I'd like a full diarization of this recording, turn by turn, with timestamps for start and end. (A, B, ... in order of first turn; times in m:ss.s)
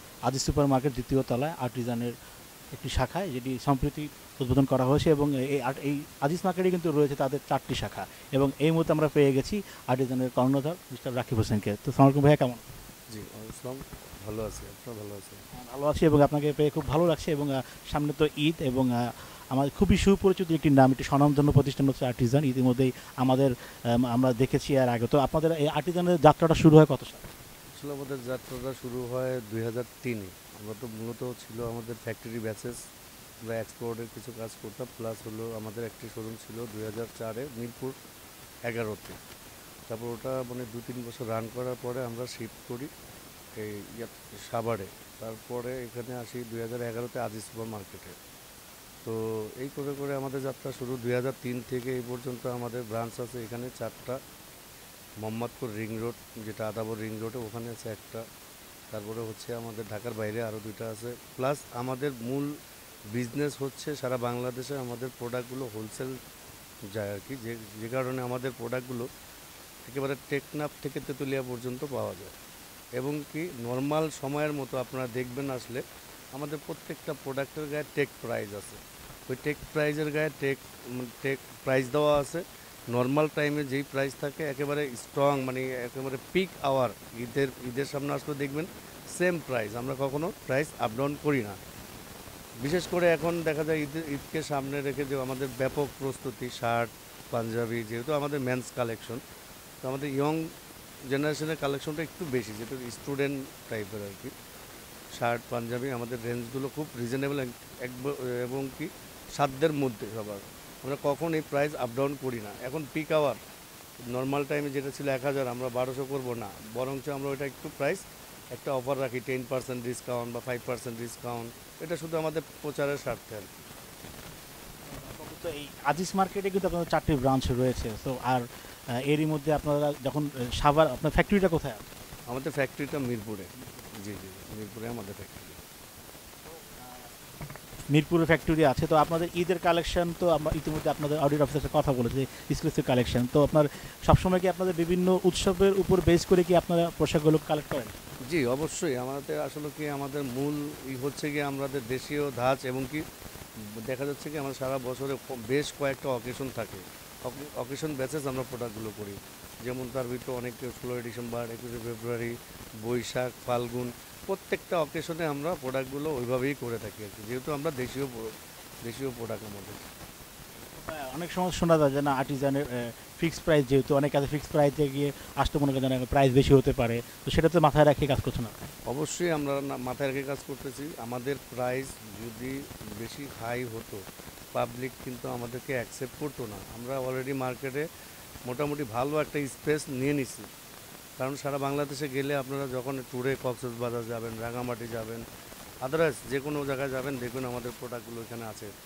0:00.3-0:02.1 A
0:02.7-0:12.6 A
0:13.1-0:15.4 B
0:15.6-0:27.3 A
0:27.7-0:32.8 B
0:33.5-0:38.0 B
0:38.7-0:39.2 B
0:39.9-0:42.9 B
0:43.6-0:48.2 B
0:49.0-0:54.2 B
0:55.2-0:58.2 B
0:58.9-1:02.5 B
1:03.1-1:06.2 B
1:06.9-1:09.1 B
1:09.8-1:12.3 B
1:13.0-1:15.8 B
1:16.3-1:31.6 B
1:32.6-1:39.2 B
1:39.8-1:40.4 B
1:41.1-1:44.3 B
1:45.2-1:53.4 B
1:54.1-2:03.7 B
2:04.9-2:08.5 A
2:09.0-2:11.8 A
2:12.3-2:15.6 B
2:16.5-2:17.1 A
2:17.9-2:28.0 A
2:28.3-2:33.0 B
2:33.8-2:48.3 B
2:48.8-2:49.9 B
2:50.8-2:58.6 A
2:58.9-3:04.0 B
3:04.5-3:07.9 B
3:08.5-3:10.5 B
3:11.2-3:15.2 B
3:15.8-3:18.7 B